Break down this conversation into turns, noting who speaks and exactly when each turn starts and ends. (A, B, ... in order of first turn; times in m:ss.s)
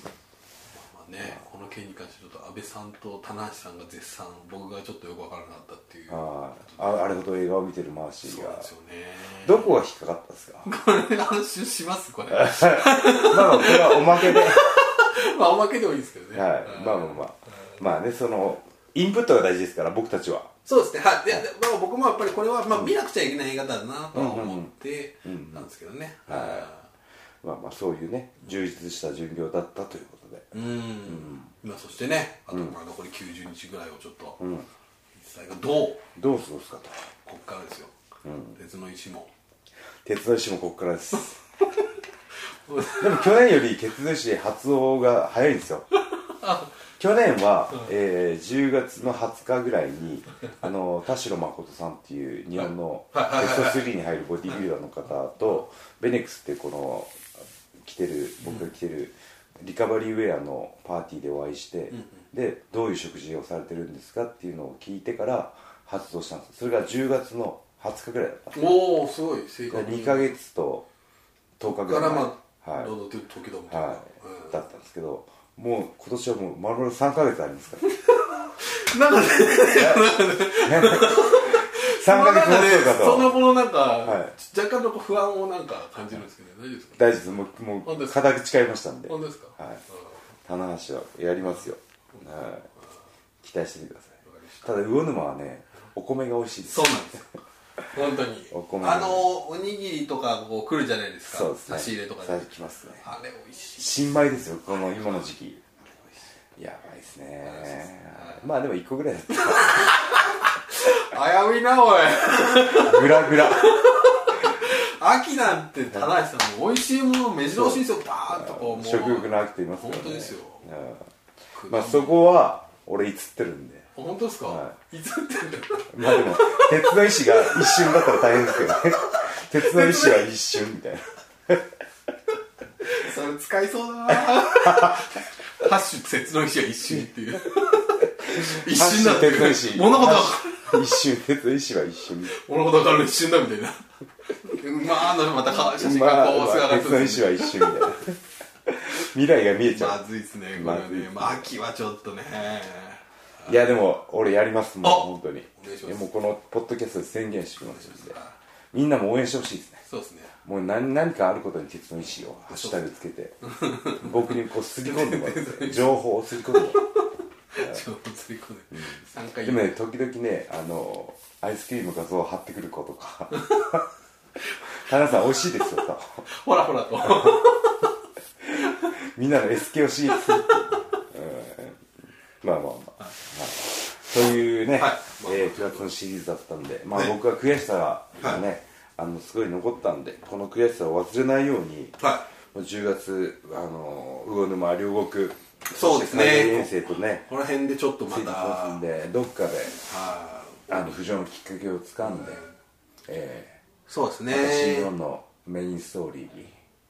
0:00.7-0:07.0 A
0:06.1-0:08.7 B
0:08.2-0:09.8 A
0:09.4-0:10.7 B
0:10.6-0:17.7 A
0:12.3-0:14.6 B
0:16.3-0:20.5 B
0:20.6-0:26.8 A
0:24.1-0:24.7 B
0:25.2-0:25.7 B
0:26.3-0:26.7 B
0:27.4-0:31.5 B
0:30.5-0:34.4 A
0:34.4-0:34.7 B
0:35.2-0:36.0 A
0:36.1-0:37.0 B
0:37.2-0:37.9 A
0:38.2-0:38.6 B
0:38.6-0:39.3 A
0:40.0-0:41.8 B
0:42.5-0:43.5 A
0:42.8-0:45.9 B
0:46.1-0:46.7 A
0:47.0-0:57.2 B
0:52.6-0:53.9 A
0:57.8-1:08.8 B
1:01.9-1:02.2 A
1:08.5-1:10.3 A
1:09.7-1:10.8 B
1:11.6-1:12.9 B
1:11.7-1:14.6 A
1:13.7-1:17.8 B
1:17.9-1:27.3 A
1:19.7-1:23.4 B
1:24.0-1:24.3 B
1:27.0-1:29.8 B
1:27.8-1:28.2 A
1:29.1-1:30.2 A
1:30.4-1:32.6 B
1:32.1-1:32.6 A
1:33.4-1:37.0 B
1:34.2-1:34.9 A
1:36.7-1:44.2 A
1:38.5-1:39.3 B
1:41.2-1:43.1 B
1:43.8-1:45.6 B
1:46.6-1:50.2 B
1:47.4-1:48.4 A
1:49.4-2:00.7 A
1:52.6-1:53.7 B
1:57.5-2:01.1 B
2:01.6-2:02.3 A
2:01.7-2:03.9 B
2:03.9-2:10.3 A
2:04.5-2:04.7 B
2:05.9-2:11.7 B
2:12.8-2:20.9 A
2:14.1-2:15.0 B
2:18.2-2:22.4 B
2:22.3-2:28.0 A
2:25.5-2:30.0 B
2:29.7-2:33.6 A
2:30.5-2:31.5 B
2:33.4-2:38.2 B
2:34.8-2:36.1 A
2:37.6-2:38.4 A
2:38.7-2:39.8 B
2:39.8-2:40.3 A
2:40.4-2:46.8 B
2:42.5-2:42.8 A
2:43.4-2:49.7 A
2:48.7-2:53.8 B
2:53.3-2:53.8 A
2:54.5-2:55.7 A
2:54.7-2:56.2 B
2:56.2-2:57.9 A
2:57.0-2:57.4 B
2:58.5-3:01.8 B
2:58.6-2:58.9 A
3:00.1-3:00.8 A
3:02.4-3:12.0 B
3:04.7-3:05.9 A
3:12.0-3:12.3 A
3:12.5-3:17.3 B
3:15.7-3:18.8 A
3:18.1-3:19.8 B
3:19.8-3:20.7 A
3:20.7-3:22.4 B
3:23.1-3:23.6 B
3:23.9-3:24.9 A
3:24.3-3:26.6 B